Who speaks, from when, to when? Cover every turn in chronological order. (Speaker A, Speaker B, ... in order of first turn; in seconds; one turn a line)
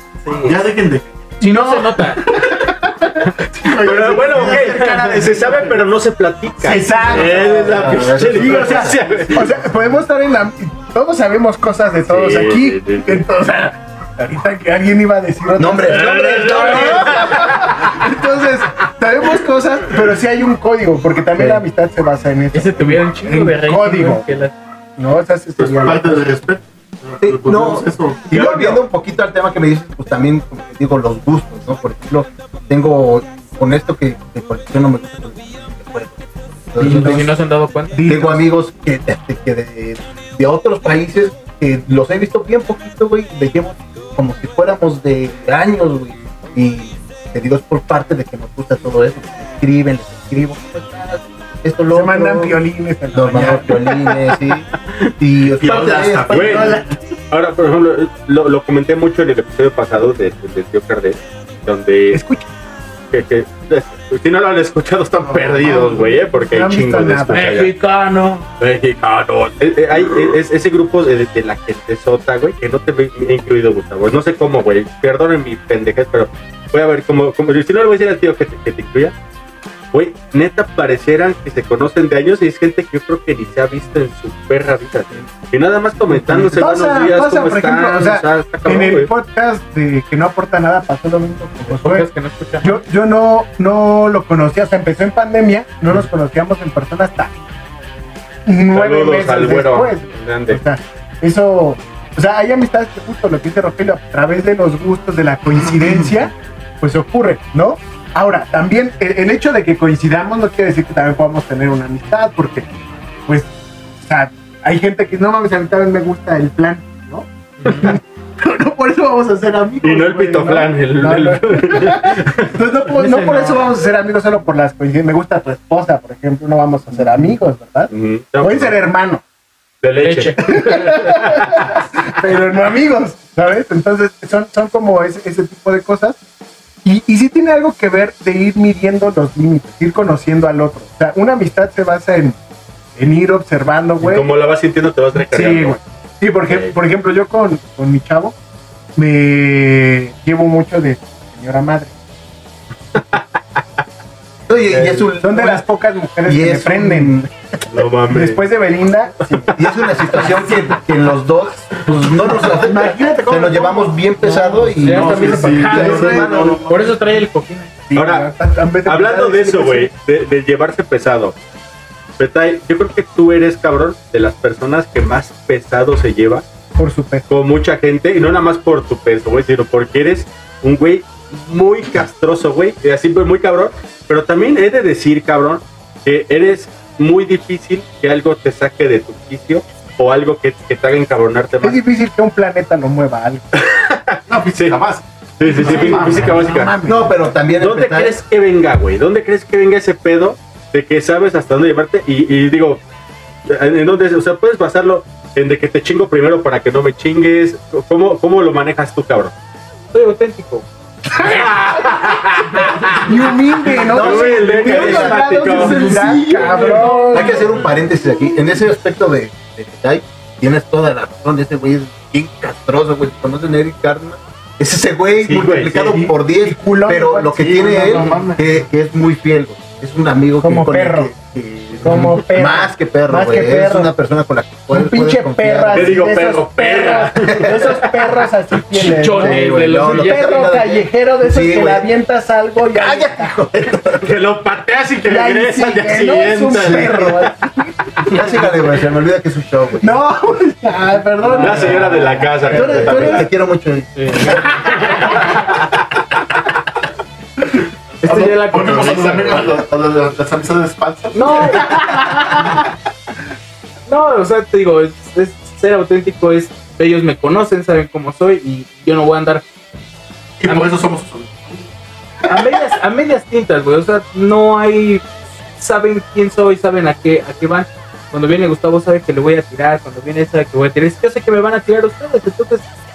Speaker A: 0.2-0.6
Speaker B: 0.4-1.4
Speaker A: 1.4-2.2
Speaker C: 1.4-5.8
Speaker B: 2.2-2.6
Speaker D: 3.7-9.5
Speaker C: 6.6-24.2
Speaker E: 7.2-9.6
Speaker D: 12.1-13.2
Speaker E: 15.6-17.5
Speaker D: 15.9-17.6
Speaker E: 21.4-21.6
Speaker A: 22.5-24.5
Speaker C: 25.0-26.4
Speaker B: 25.6-28.7
Speaker E: 27.2-37.3
Speaker C: 28.3-28.8
Speaker A: 36.8-38.0
Speaker C: 36.8-37.3
Speaker C: 37.9-38.5
Speaker E: 38.0-52.6
Speaker C: 51.9-53.9
Speaker E: 53.1-56.8
Speaker B: 55.5-57.0
Speaker D: 56.3-56.7
Speaker C: 56.5-56.8
Speaker D: 57.3-62.2
Speaker C: 62.1-62.5
Speaker D: 63.1-67.7
Speaker C: 65.2-67.5
Speaker A: 67.3-68.5
Speaker D: 68.6-79.1
Speaker D: 79.9-89.1
Speaker C: 86.1-92.1
Speaker A: 91.7-92.8
Speaker C: 92.6-97.3
Speaker C: 98.5-112.7
Speaker D: 98.7-100.6
Speaker C: 114.0-129.2
Speaker A: 117.6-117.9
Speaker D: 119.8-122.5
Speaker A: 122.9-123.7
Speaker D: 127.9-128.8
Speaker D: 129.8-131.5
Speaker A: 130.0-131.0
Speaker C: 130.4-136.2
Speaker C: 136.8-142.4
Speaker C: 142.9-144.3
Speaker D: 144.0-145.8
Speaker C: 145.1-148.3
Speaker D: 146.5-146.7
Speaker C: 148.9-151.9
Speaker D: 152.9-153.2
Speaker E: 154.5-155.6
Speaker D: 154.7-155.0
Speaker C: 155.2-157.3
Speaker E: 156.2-157.3
Speaker D: 157.7-158.4
Speaker C: 158.1-159.6
Speaker E: 159.5-166.7
Speaker C: 162.3-164.3
Speaker A: 164.8-167.9
Speaker B: 164.8-166.9
Speaker D: 165.4-166.3
Speaker C: 167.9-169.9
Speaker D: 167.9-168.3
Speaker D: 168.8-171.3
Speaker D: 172.2-176.4
Speaker C: 176.8-177.2
Speaker D: 177.3-191.8
Speaker C: 191.6-193.4
Speaker D: 193.6-194.8
Speaker B: 194.3-196.5
Speaker D: 195.4-196.7
Speaker C: 195.5-197.3
Speaker E: 196.8-198.2
Speaker D: 197.6-202.8
Speaker D: 203.4-209.3
Speaker A: 209.9-210.7
Speaker A: 211.2-211.6
Speaker C: 211.3-211.6
Speaker D: 211.3-212.2
Speaker A: 212.5-213.0
Speaker C: 212.9-217.4
Speaker D: 213.8-216.0
Speaker E: 213.8-236.1
Speaker B: 215.7-216.9
Speaker A: 216.6-217.3
Speaker D: 225.2-226.1
Speaker C: 225.9-228.1
Speaker B: 227.3-228.7
Speaker C: 230.4-231.1
Speaker C: 231.8-233.9
Speaker C: 234.7-243.3
Speaker D: 235.7-238.3
Speaker E: 237.2-237.6
Speaker A: 238.7-240.5
Speaker E: 239.0-241.9
Speaker E: 242.6-244.1
Speaker D: 244.0-247.3
Speaker C: 245.0-247.7
Speaker E: 248.1-250.0
Speaker C: 249.8-253.3
Speaker A: 251.2-251.8
Speaker D: 251.3-253.3
Speaker E: 252.4-254.7
Speaker A: 254.0-254.9
Speaker A: 258.0-259.6
Speaker B: 258.0-262.0
Speaker A: 261.1-262.6
Speaker A: 263.9-269.4
Speaker B: 270.4-271.7
Speaker A: 270.4-270.7
Speaker A: 272.3-275.0
Speaker A: 275.6-282.6